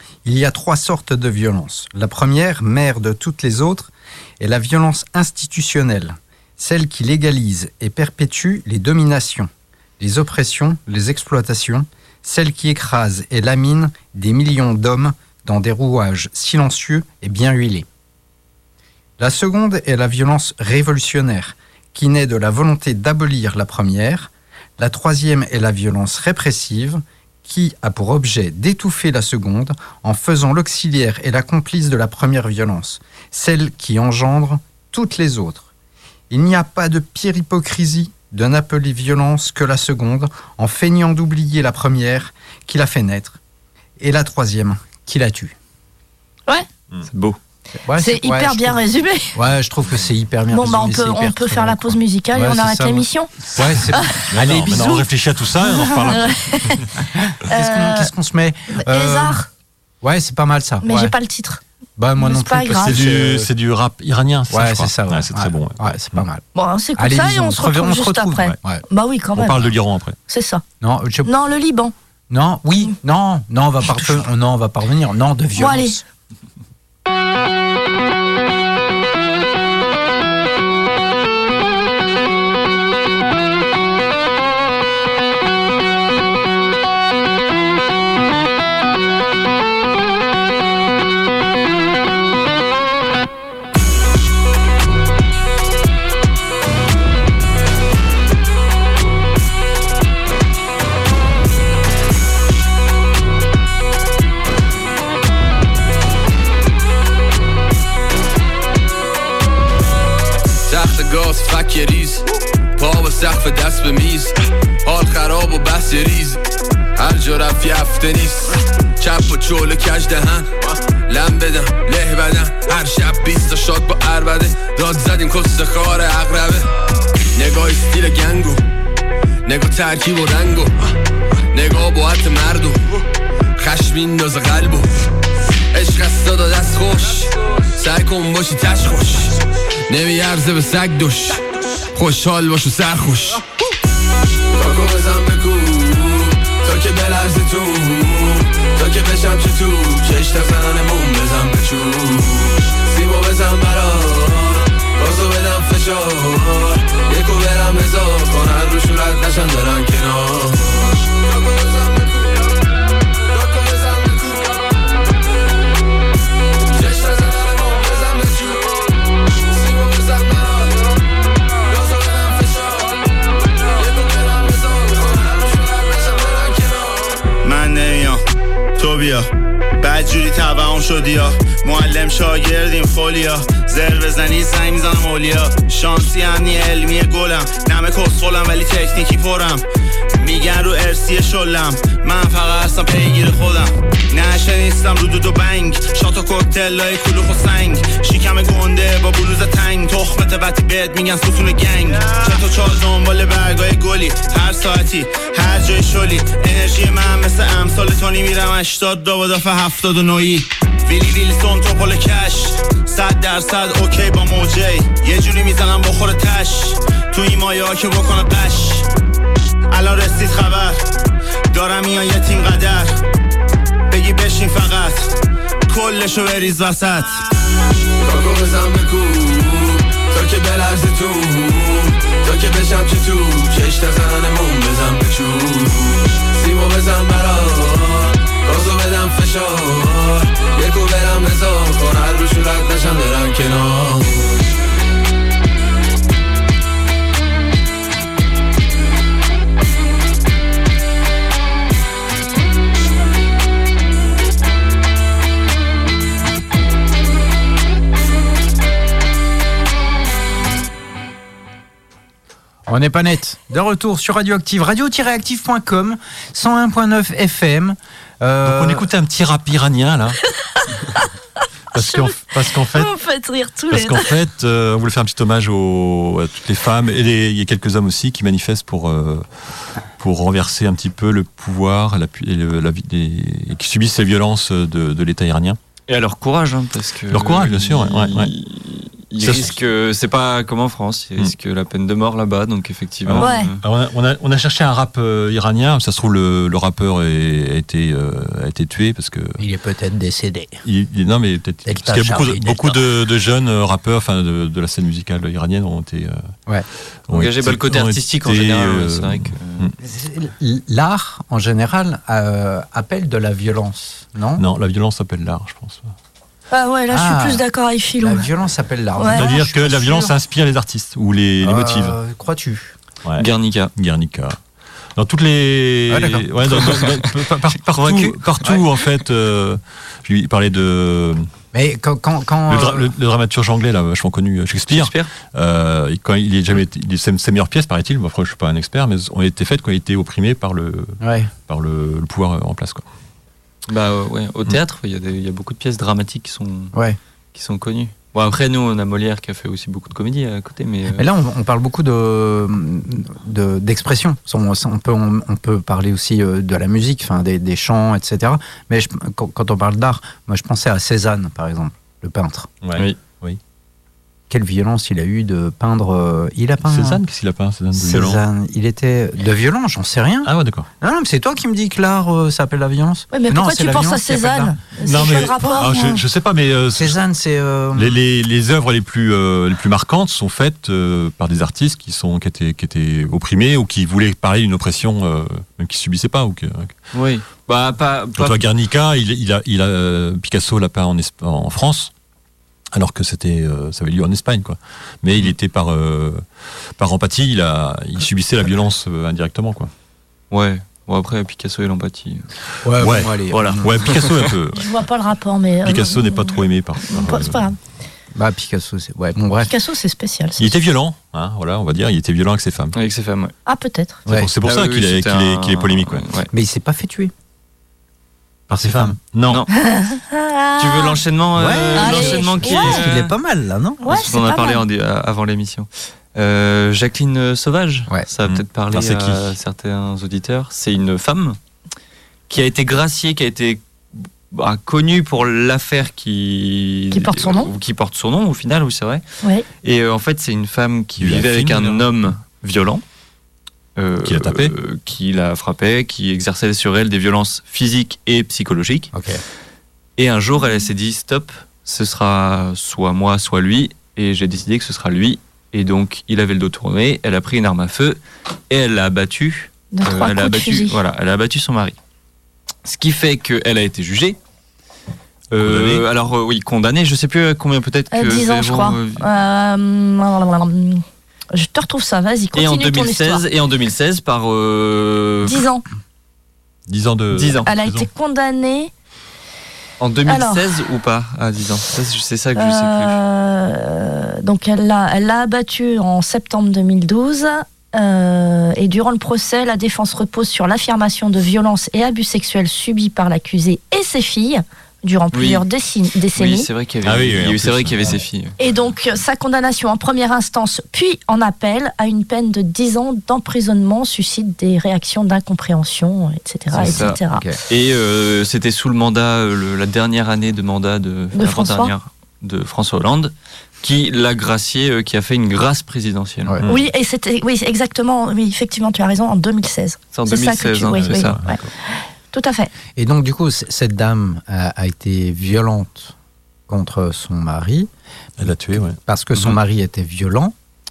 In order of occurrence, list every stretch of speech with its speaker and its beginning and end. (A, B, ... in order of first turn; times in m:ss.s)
0:00.2-0:17.9 A
0:19.2-0:35.7 A
0:36.3-0:43.4 A
0:44.0-0:45.6 A
0:47.1-0:47.4 B
0:47.8-0:48.8 A
0:48.0-0:49.3 C
0:49.3-0:55.0 A
0:50.5-0:53.3 C
0:53.6-0:56.9 D
0:53.9-0:55.0 C
0:55.7-0:56.9 C
0:57.2-0:59.4 A
0:57.5-0:58.1 C
0:58.7-0:59.5 C
1:00.0-1:01.1 A
1:00.8-1:01.6 C
1:02.0-1:03.5 A
1:02.2-1:03.0 C
1:02.8-1:06.2 D
1:04.5-1:06.4 A
1:06.6-1:09.7 C
1:07.0-1:08.8 A
1:09.4-1:10.2 D
1:10.3-1:10.6 C
1:10.8-1:11.3 A
1:11.2-1:11.9 C
1:12.3-1:16.0 A
1:15.6-1:16.0 C
1:50.7-1:52.3 E
1:52.8-1:56.4 E
1:57.0-2:06.7 E
2:07.3-2:08.6 E
2:09.4-2:10.9 E
2:11.5-2:13.0 E
2:13.6-2:14.9 E
2:15.7-2:23.5 E
2:24.5-2:42.5 E
2:43.3-2:44.6 E
2:46.7-2:50.9 E
2:51.7-2:53.0 E
2:53.8-2:57.3 E
2:57.4-2:58.2 F
2:58.8-3:38.9 F
3:39.7-3:40.8 F
3:41.5-3:43.0 F
3:43.9-3:45.1 F
3:45.7-3:47.2 F
3:48.0-4:04.5 E
4:22.7-4:28.9 A
4:28.4-4:30.2 D
4:31.7-4:32.2 C
4:31.7-4:32.9 D
4:32.7-4:34.1 C
4:33.7-4:39.2 D
4:40.0-4:45.6 D
4:45.9-4:53.6 B
4:47.1-4:48.3 D
4:49.2-4:49.5 D
4:53.1-4:59.4 D
4:53.2-4:53.5 C
4:59.4-5:00.6 A
5:00.6-5:06.2 D
5:01.7-5:02.9 A
5:07.1-5:09.7 D
5:07.1-5:09.7 B
5:09.8-5:14.4 A
5:14.4-5:15.9 D
5:16.5-5:18.3 C
5:16.9-5:17.4 A
5:18.0-5:20.1 A
5:19.0-5:19.3 C
5:19.1-5:22.0 D
5:21.4-5:22.8 A
5:23.0-5:24.4 D
5:23.2-5:23.7 B
5:25.0-5:31.3 D
5:25.9-5:26.7 A
5:27.8-5:28.2 B
5:31.5-5:32.9 A
5:32.5-5:42.8 D
5:34.7-5:35.1 B
5:41.0-5:41.3 A
5:43.7-5:46.8 B
5:47.3-5:51.0 B
5:51.0-6:02.5 A
6:02.6-6:03.4 D
6:04.3-6:07.0 A
6:06.6-6:08.2 D
6:07.7-6:10.3 A
6:10.2-6:10.7 D
6:10.8-6:14.6 A
6:13.1-6:16.0 C
6:14.8-6:17.0 D
6:16.8-6:18.0 A
6:17.8-6:26.7 D
6:26.9-6:28.4 B
6:28.2-6:31.9 D
6:32.7-6:36.2 D
6:36.8-6:39.7 D
6:40.3-6:42.3 B
6:42.6-6:44.2 A
6:42.8-6:44.8 D
6:44.5-6:47.6 C
6:45.6-6:47.4 D
6:48.1-6:49.5 A
6:49.5-6:50.5 C
6:50.4-6:52.8 D
6:52.8-6:53.3 B
6:53.5-6:54.0 C
6:54.1-6:56.0 D
6:54.4-6:56.3 B
6:56.3-6:57.1 A
6:58.5-6:59.4 D
6:58.6-6:59.0 A
6:59.5-7:01.0 C
7:00.6-7:03.1 B
7:01.4-7:03.8 A
7:01.8-7:02.9 C
7:03.8-7:04.6 C
7:03.9-7:11.4 B
7:08.2-7:09.3 D
7:12.3-7:13.6 B
7:14.3-7:19.0 B
7:16.9-7:17.5 C
7:19.6-7:22.8 B
7:21.0-7:21.8 D
7:23.8-7:28.9 B
7:24.0-7:24.5 D
7:28.9-7:29.2 A
7:30.0-7:41.8 B
7:39.7-7:40.8 C
7:42.6-7:44.2 B
7:45.3-7:49.1 B
7:45.4-7:45.8 D
7:47.9-7:53.2 C
7:52.3-7:55.4 B
7:55.2-7:55.6 C
7:56.7-7:57.9 D
7:57.1-7:57.5 B
7:57.5-7:58.7 C
7:59.8-8:03.0 B
8:00.1-8:00.5 C
8:02.4-8:16.5 C
8:15.1-8:15.4 B
8:16.2-8:18.4 B
8:16.8-8:18.0 D
8:18.4-8:27.3 C
8:26.5-8:36.4 B
8:26.6-8:27.4 A
8:31.2-8:31.7 C
8:36.5-8:42.5 C
8:39.9-8:41.2 B
8:40.8-8:41.5 D
8:42.8-8:45.9 A
8:46.5-8:47.7 A
8:48.2-8:48.8 D
8:48.7-8:50.3 A